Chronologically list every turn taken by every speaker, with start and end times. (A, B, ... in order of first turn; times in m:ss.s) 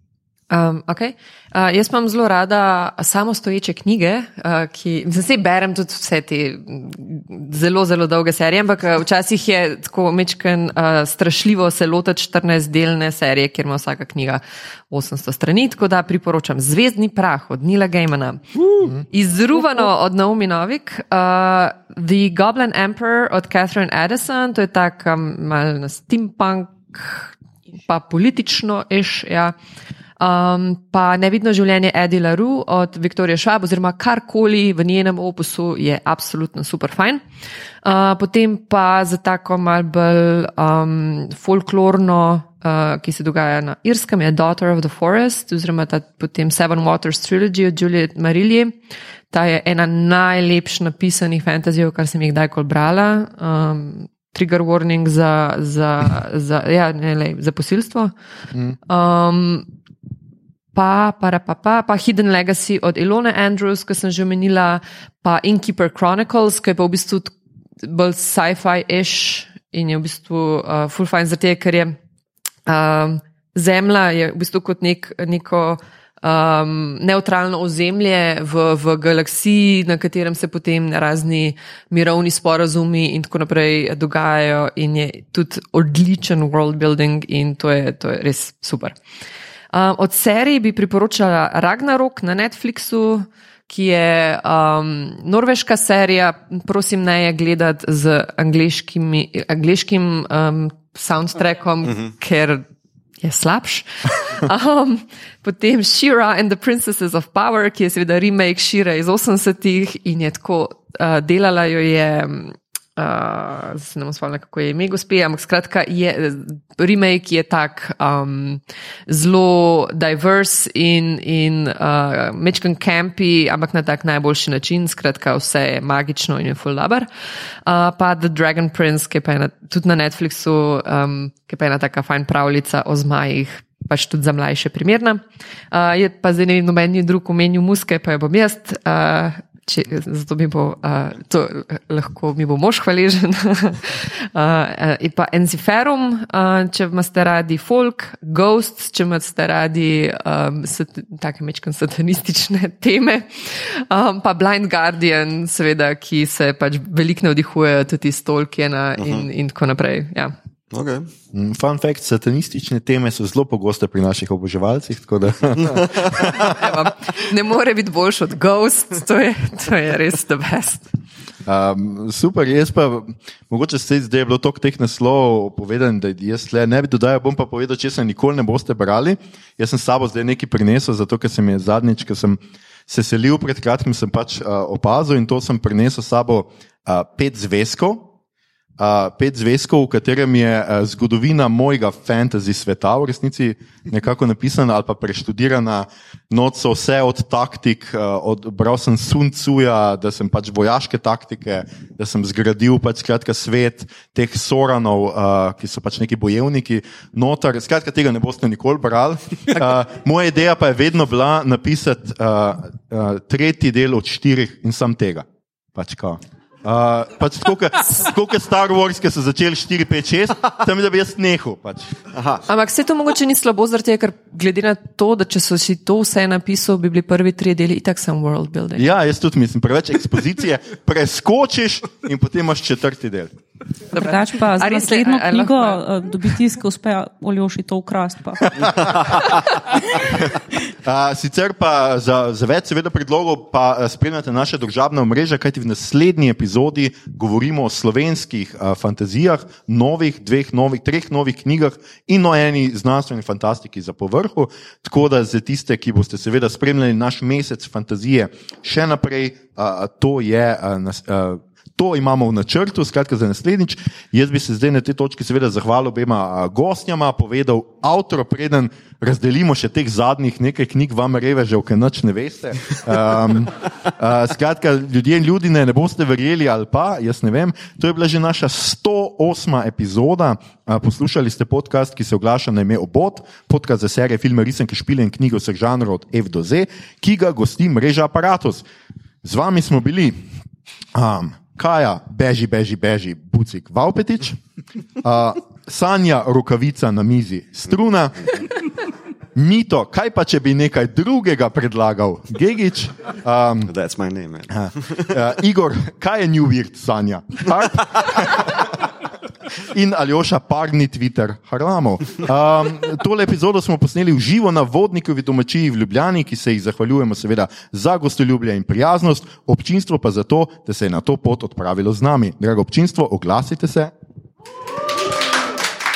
0:00.5-0:27.3 A
0:27.9-0:29.6 A
0:30.2-0:37.2 A
0:37.8-0:58.1 A
0:58.9-0:59.7 A
1:00.7-1:12.0 A
1:12.7-1:29.0 A
1:29.7-1:42.6 A
1:41.8-1:42.1 B
1:43.2-2:07.1 A
2:07.7-2:40.4 A
2:39.0-2:39.3 B
2:40.7-2:41.1 B
2:41.3-2:46.6 C
2:45.5-2:46.3 B
2:46.3-2:50.9 A
2:51.4-3:08.1 C
3:08.8-3:42.0 C
3:42.1-3:42.4 B
3:42.5-3:48.9 A
3:48.8-3:53.3 C
3:53.9-3:55.8 A
3:53.9-3:59.0 D
3:58.6-3:59.0 C
3:58.7-3:59.2 B
4:00.8-4:48.6 C
4:49.2-4:50.2 C
4:50.9-4:54.4 C
4:55.0-4:58.4 C
4:59.4-5:03.7 C
5:03.7-5:05.2 B
5:04.5-5:08.7 C
5:09.6-5:23.9 C